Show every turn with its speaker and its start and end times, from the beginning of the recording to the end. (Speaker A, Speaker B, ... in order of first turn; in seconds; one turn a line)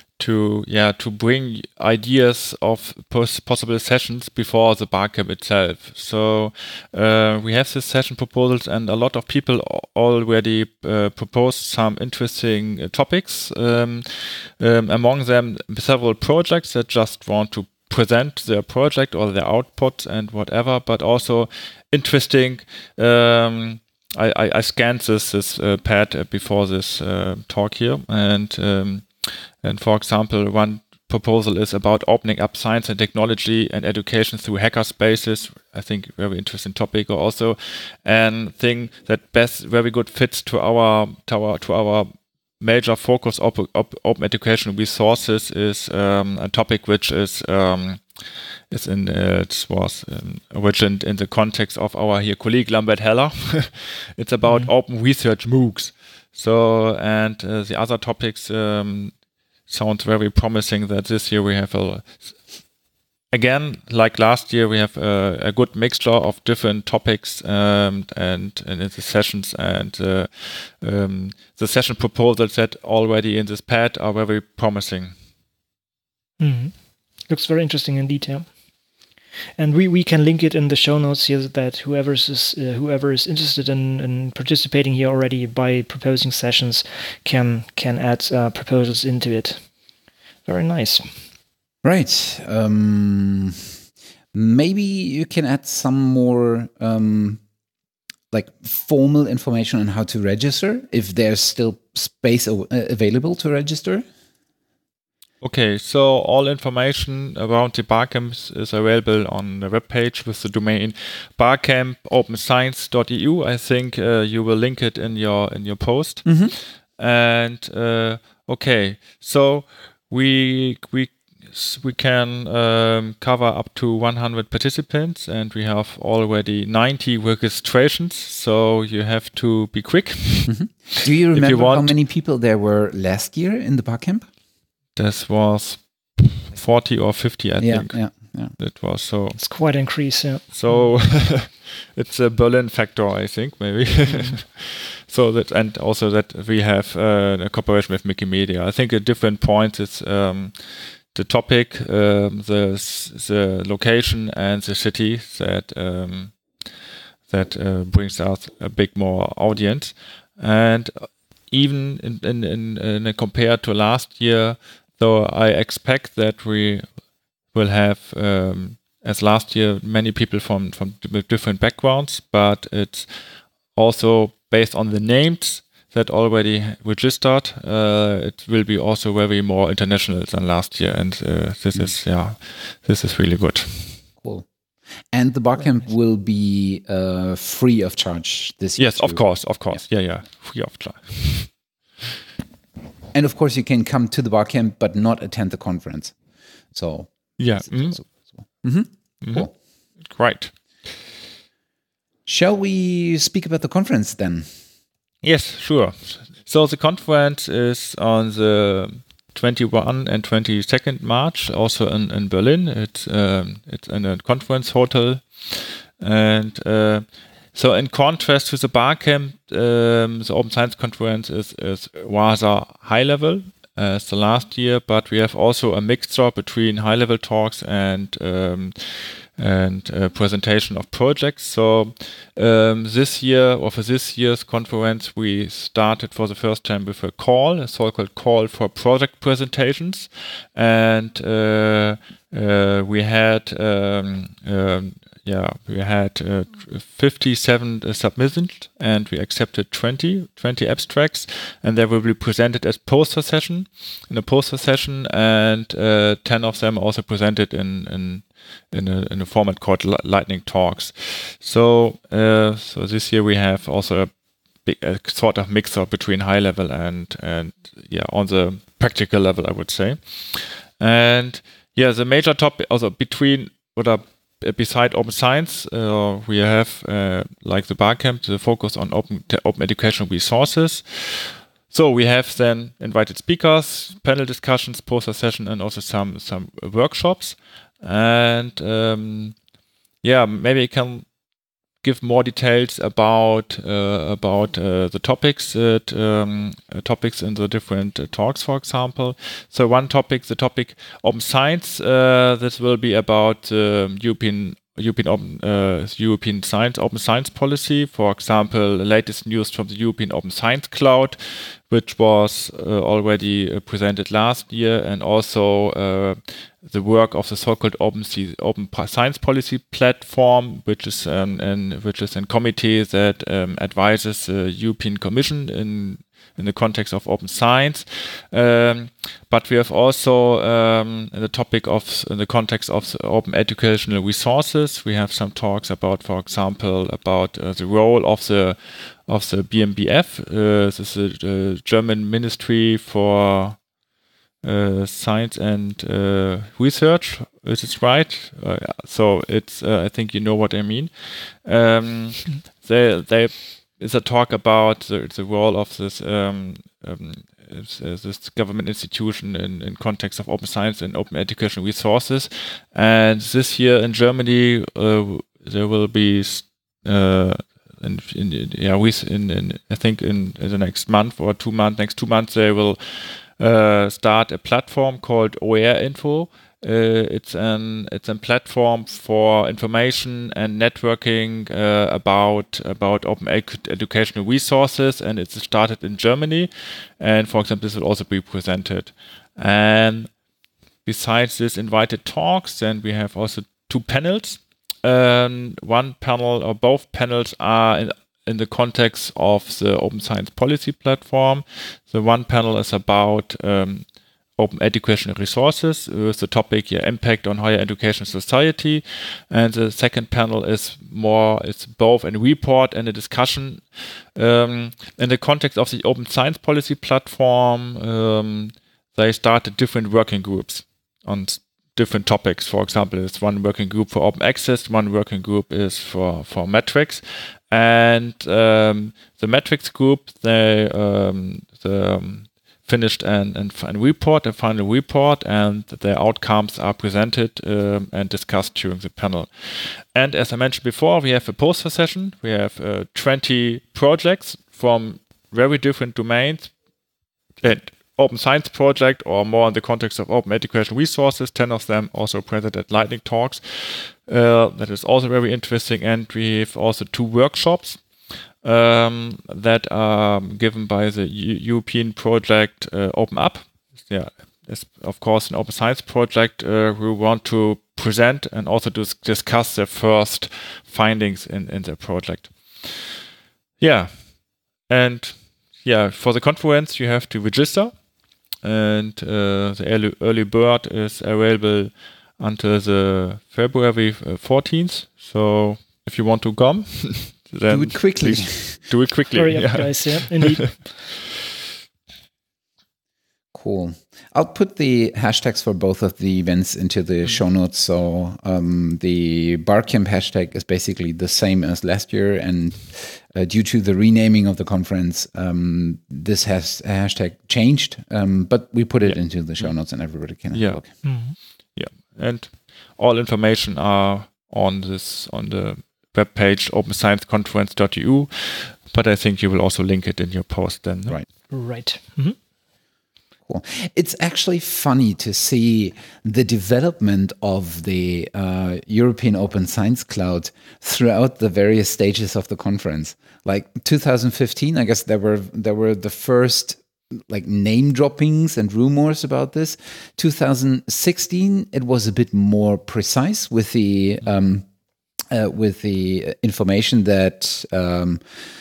Speaker A: 0.2-62.5
Speaker B: 54.5-54.7
Speaker A: 63.3-75.1
Speaker B: 76.4-78.6
Speaker B: 79.6-89.7
Speaker B: 90.5-91.1
Speaker C: 91.8-93.8
Speaker C: 94.3-97.4
Speaker C: 98.3-104.0
Speaker A: 105.4-131.9
Speaker C: 116.2-116.5
Speaker C: 130.5-134.3
Speaker A: 135.0-139.4
Speaker C: 137.6-138.5
Speaker B: 139.4-140.9
Speaker A: 140.5-156.8
Speaker B: 144.1-144.4
Speaker A: 157.3-166.9
Speaker A: 167.5-184.1
Speaker C: 184.2-184.5
Speaker C: 185.1-189.8
Speaker B: 185.6-185.8
Speaker A: 188.8-191.7
Speaker C: 193.1-199.5
Speaker A: 197.4-198.7
Speaker A: 199.2-200.9
Speaker C: 202.3-204.5
Speaker A: 205.2-289.4
Speaker A: 290.0-291.1
Speaker A: 291.8-343.7
Speaker A: 344.4-390.1
Speaker A: 390.9-446.6
Speaker A: 447.4-473.0
Speaker A: 473.6-490.7
Speaker C: 487.5-488.6
Speaker B: 489.1-490.8
Speaker C: 493.3-510.7
Speaker A: 508.8-521.0
Speaker B: 510.8-511.2
Speaker B: 521.3-522.2
Speaker C: 523.3-544.5
Speaker C: 545.1-548.0